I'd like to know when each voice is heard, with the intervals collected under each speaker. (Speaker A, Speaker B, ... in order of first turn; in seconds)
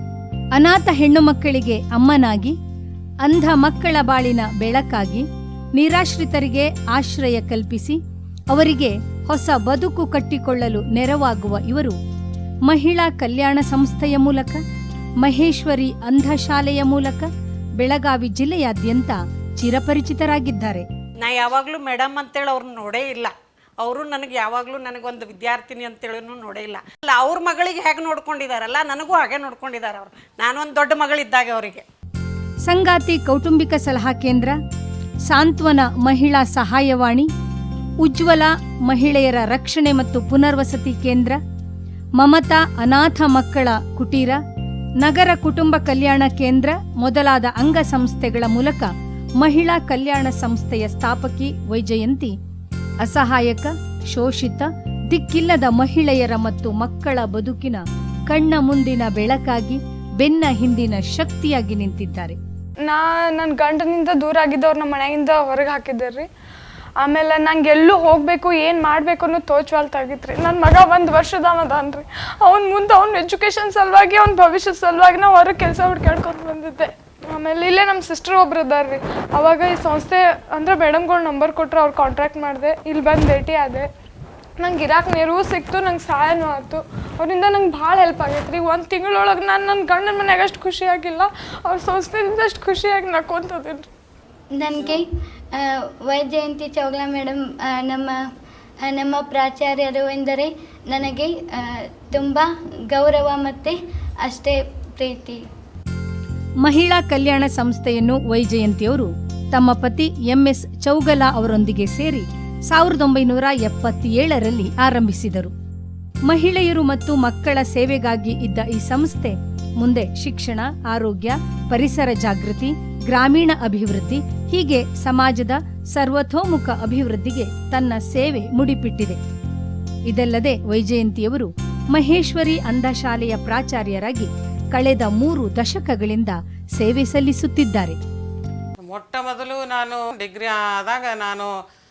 Speaker A: 0.6-2.5, 3.2-5.2, 5.8-8.0, 8.5-12.0, 12.7-14.6, 15.2-17.3, 17.8-20.9, 32.7-34.5, 35.3-37.3, 38.0-41.4, 42.2-44.4, 45.0-52.3, 53.0-62.4, 106.6-115.5, 116.3-129.2, 130.1-138.0
Speaker B: 21.2-31.9
Speaker C: 62.9-66.3, 67.0-83.9, 84.6-93.9
Speaker D: 94.5-98.2, 98.8-105.4
Speaker E: 138.8-141.5